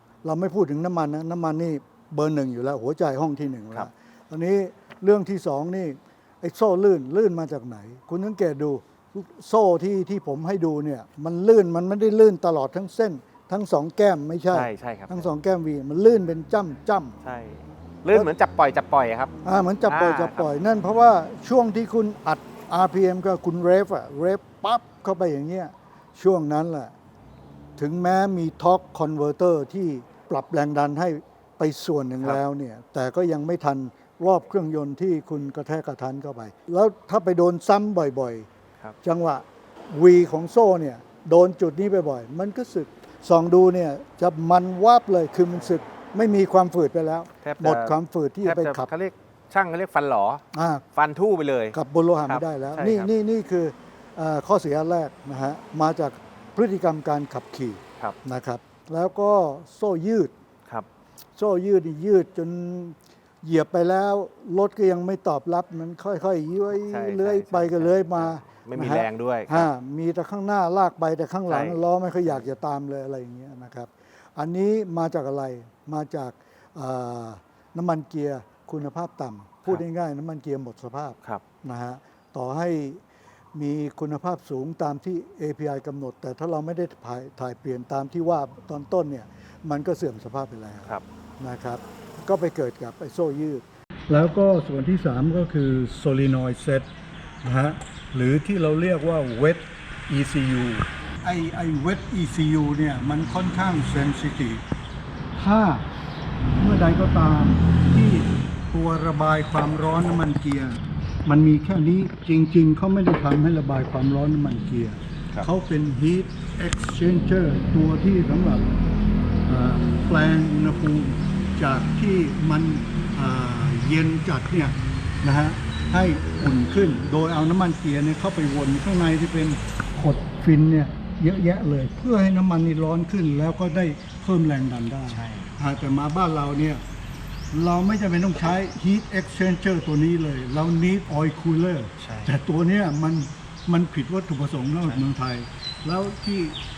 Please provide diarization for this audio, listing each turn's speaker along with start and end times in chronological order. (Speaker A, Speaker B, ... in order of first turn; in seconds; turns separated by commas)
Speaker A: 0.2-17.2, Speaker B: 14.5-15.3, Speaker B: 17.2-19.3, Speaker A: 19.4-26.9, Speaker B: 19.8-20.5, Speaker A: 27.8-38.5, Speaker A: 39.0-48.9, Speaker B: 47.4-50.4, Speaker A: 50.5-50.9, Speaker B: 51.0-53.1, Speaker A: 51.7-60.3, Speaker A: 61.4-83.0, Speaker B: 66.7-69.7, Speaker B: 71.5-72.4, Speaker A: 83.5-96.9, Speaker A: 97.4-104.6, Speaker A: 105.3-105.9, Speaker A: 106.5-118.8, Speaker A: 119.5-136.8, Speaker B: 135.1-135.6, Speaker A: 137.5-146.6, Speaker B: 142.0-142.3